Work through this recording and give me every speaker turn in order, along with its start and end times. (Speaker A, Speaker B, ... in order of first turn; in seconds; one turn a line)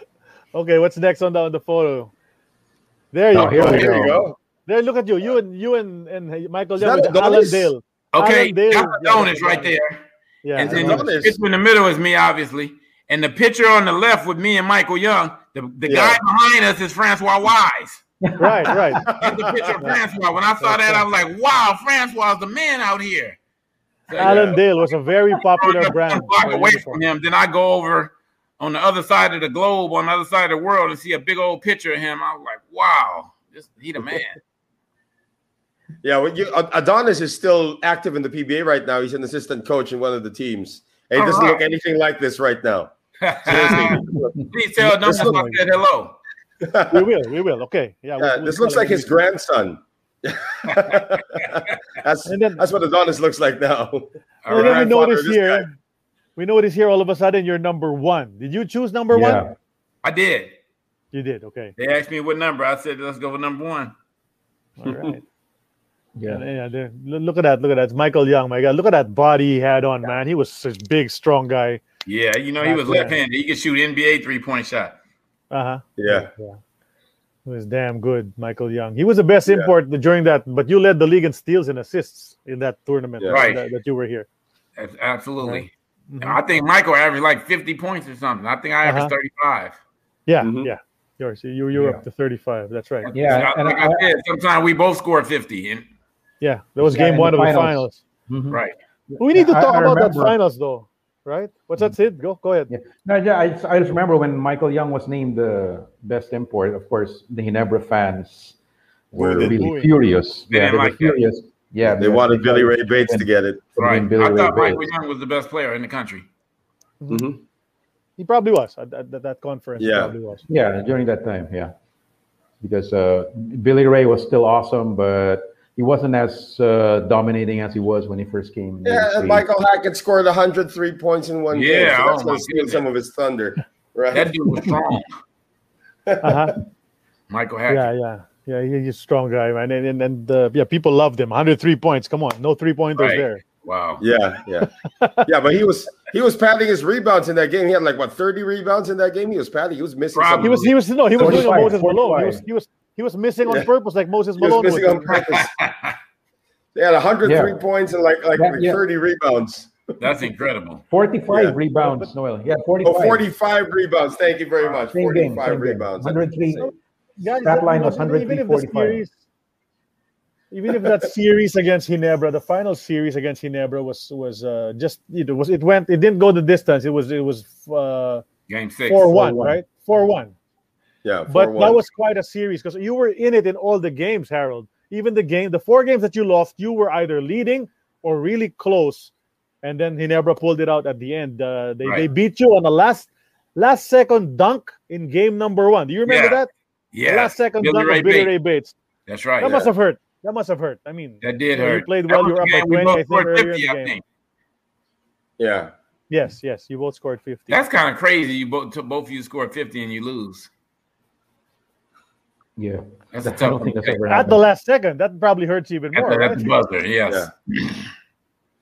Speaker A: 0.5-2.1
Speaker A: 3.1-9.7
Speaker B: 3.3-4.1
Speaker C: 3.4-3.9
Speaker D: 3.5-4.4
Speaker D: 6.8-7.7
Speaker C: 8.1-10.0
Speaker A: 10.4-11.0
Speaker C: 10.6-18.0
Speaker D: 10.6-11.4
Speaker D: 15.9-16.2
Speaker B: 18.2-19.0
Speaker A: 18.4-19.1
Speaker D: 19.1-19.8
Speaker C: 19.2-23.4
Speaker A: 20.6-21.0
Speaker C: 24.1-24.6
Speaker A: 24.1-27.0
Speaker D: 24.2-24.6
Speaker C: 25.3-34.4
Speaker D: 36.0-42.9
Speaker C: 41.1-41.6
Speaker C: 43.2-46.2
Speaker D: 43.4-45.6
Speaker B: 43.6-44.5
Speaker A: 45.1-45.5
Speaker D: 46.6-47.1
Speaker A: 46.9-49.1
Speaker D: 48.2-55.6
Speaker C: 50.7-51.7
Speaker A: 52.3-52.6
Speaker C: 54.4-54.9
Speaker A: 54.5-55.7
Speaker A: 56.4-59.4
Speaker B: 59.1-59.5
Speaker C: 60.0-60.6
Speaker A: 61.1-61.8
Speaker C: 61.8-63.9
Speaker A: 64.8-65.2
Speaker D: 64.9-65.2
Speaker B: 66.2-66.4
Speaker A: 66.3-71.8
Speaker C: 72.1-75.0
Speaker A: 72.6-73.1
Speaker A: 75.5-76.6
Speaker D: 76.0-76.3
Speaker A: 77.5-84.3
Speaker C: 83.3-83.6
Speaker C: 84.8-89.8
Speaker A: 85.4-86.4
Speaker A: 88.8-89.1
Speaker A: 90.3-93.1
Speaker D: 90.4-90.7
Speaker B: 91.7-92.0
Speaker C: 93.0-95.9
Speaker B: 93.1-94.1
Speaker A: 96.4-98.0
Speaker B: 96.8-100.3
Speaker C: 98.5-98.8
Speaker A: 99.2-102.7
Speaker B: 102.7-108.5
Speaker B: 109.1-114.9
Speaker D: 109.2-109.6
Speaker A: 109.5-109.9
Speaker C: 110.5-111.2
Speaker D: 112.0-113.6
Speaker C: 113.8-116.3
Speaker A: 117.0-117.3
Speaker D: 117.1-117.4
Speaker A: 118.2-120.4
Speaker D: 119.8-120.1
Speaker B: 120.5-121.7
Speaker B: 122.6-129.5
Speaker D: 128.8-134.3
Speaker C: 131.5-132.8
Speaker C: 134.1-135.1
Speaker D: 136.1-136.5
Speaker A: 136.2-136.6
Speaker C: 137.3-137.9
Speaker A: 137.7-143.4
Speaker C: 143.0-144.0
Speaker D: 144.0-144.7
Speaker A: 144.9-145.3
Speaker D: 145.3-150.6
Speaker C: 150.2-150.8
Speaker A: 150.4-155.1
Speaker B: 151.2-152.4
Speaker D: 154.4-155.5
Speaker C: 155.1-156.0
Speaker D: 156.8-159.9
Speaker B: 157.2-157.6
Speaker B: 158.4-158.8
Speaker C: 160.0-160.8
Speaker B: 160.9-163.3
Speaker D: 161.3-161.6
Speaker A: 161.8-162.1
Speaker D: 162.8-166.2
Speaker B: 164.8-166.7
Speaker A: 166.6-169.1
Speaker B: 167.4-169.0
Speaker A: 170.5-178.2
Speaker C: 178.5-179.4
Speaker A: 178.9-180.3
Speaker D: 181.1-181.8
Speaker A: 181.3-189.1
Speaker A: 189.6-196.5
Speaker C: 196.1-198.3
Speaker A: 197.1-198.8
Speaker C: 199.1-199.6
Speaker D: 199.4-199.7
Speaker A: 199.4-203.9
Speaker C: 201.2-204.0
Speaker D: 205.4-205.7
Speaker A: 206.1-207.6
Speaker C: 207.5-210.5
Speaker B: 212.6-214.4
Speaker C: 213.1-214.0
Speaker A: 214.1-216.5
Speaker C: 215.9-217.9